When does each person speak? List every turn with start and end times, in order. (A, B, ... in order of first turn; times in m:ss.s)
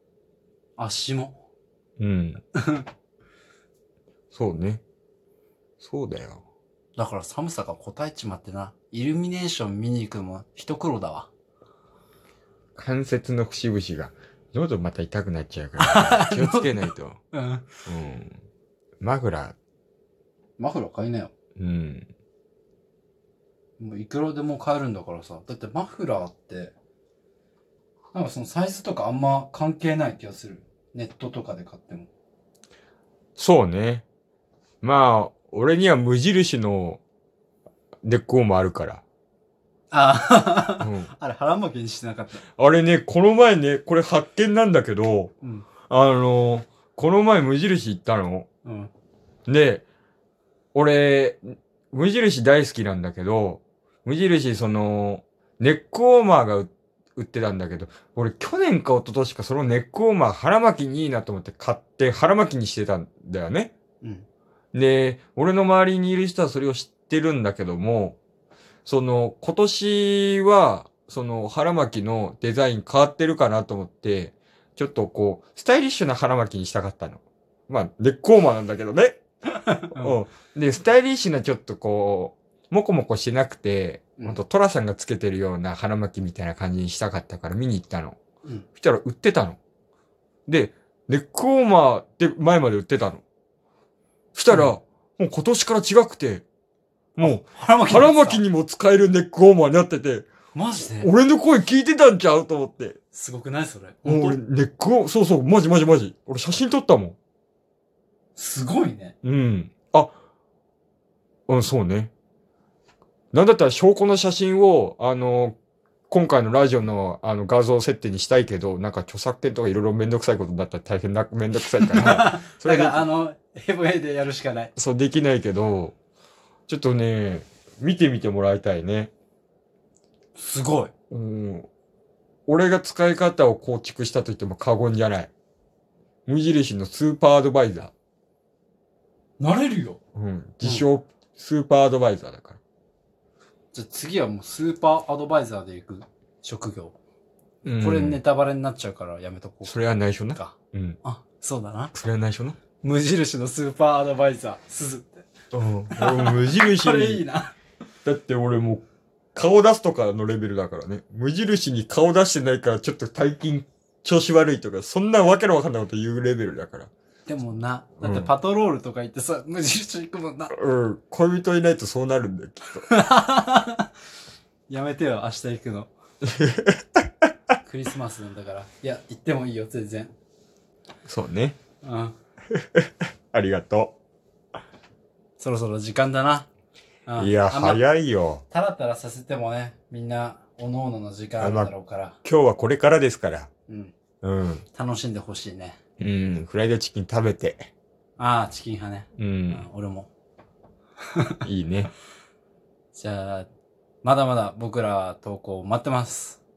0:00.8-0:01.4 A
0:02.0-0:02.4 B
0:02.6-0:02.8 A
0:04.3-0:04.8 B
0:05.8-0:06.4 B
0:07.0-0:11.3 A
0:12.8-0:17.2 B
0:15.8-0:16.7 A
0:17.3-0:17.7 A
0:17.8-0:18.4 B
0:19.0-0:19.6 B
0:20.6-0:21.3 A
0:21.6-0:22.1 B
0:23.8-0:26.7 A
0:28.1-0:32.1 A
0:33.4-0:34.0 B
0:34.8-0:37.0 B
0:38.0-0:39.0 B
0:39.9-0:42.4 A
0:40.8-0:41.1 B
0:42.6-0:45.3 B
0:45.4-0:45.7 A
0:45.9-0:48.5 B
0:48.6-0:48.9 A
0:49.5-0:49.8 B
0:50.7-1:03.7 B
1:04.0-1:04.3 A
1:04.7-1:08.2 B
1:08.8-1:19.2 B
1:19.6-1:20.1 A
1:19.9-1:28.2 B
1:28.8-1:29.6 B
1:30.5-1:33.2 B
1:34.3-1:36.4 B
1:37.2-1:38.4 A
1:37.2-1:40.3 B
1:40.5-1:41.1 A
1:41.0-1:43.0 B
1:43.1-1:44.4 A
1:44.0-1:47.2 B
1:48.4-1:49.1 A
1:49.2-1:50.1 B
1:51.5-1:52.1 B
1:53.3-1:55.6 B
1:56.1-2:03.0 B
2:01.8-2:04.7 A
2:04.8-2:06.0 B
2:06.7-2:09.1 B
2:10.4-2:10.9 A
2:11.1-2:11.7 B
2:12.5-2:15.3 B
2:16.2-2:17.9 B
2:19.4-2:20.0 A
2:20.1-2:22.6 B
2:23.7-2:27.0 A
2:27.6-2:28.2 B
2:27.8-2:29.8 A
2:29.6-2:31.0 B
2:30.3-2:31.9 A
2:31.9-2:32.6 B
2:32.8-2:35.3 A
2:35.5-2:37.2 B
2:35.9-2:37.5 A
2:38.0-2:46.9 B
2:47.3-2:50.5 A
2:48.0-2:48.3 B
2:50.5-2:52.8 B
2:52.9-2:53.9 A
2:54.7-2:55.9 A
2:56.2-2:57.0 B
2:57.6-3:00.1 A
3:01.0-3:01.6 B
3:01.8-3:02.1 A
3:02.5-3:04.0 B
3:05.4-3:06.5 A
3:07.1-3:07.8 A
3:07.2-3:08.4 B
3:08.5-3:12.2 A
3:11.4-3:11.7 B
3:12.2-3:13.5 B
3:13.7-3:13.9 A
3:14.2-3:14.6 B
3:14.7-3:15.8 A
3:16.0-3:17.7 B
3:18.2-3:20.1 A
3:19.2-3:19.6 B
3:21.4-3:21.9 B
3:22.9-3:23.5 A
3:24.0-3:26.4 A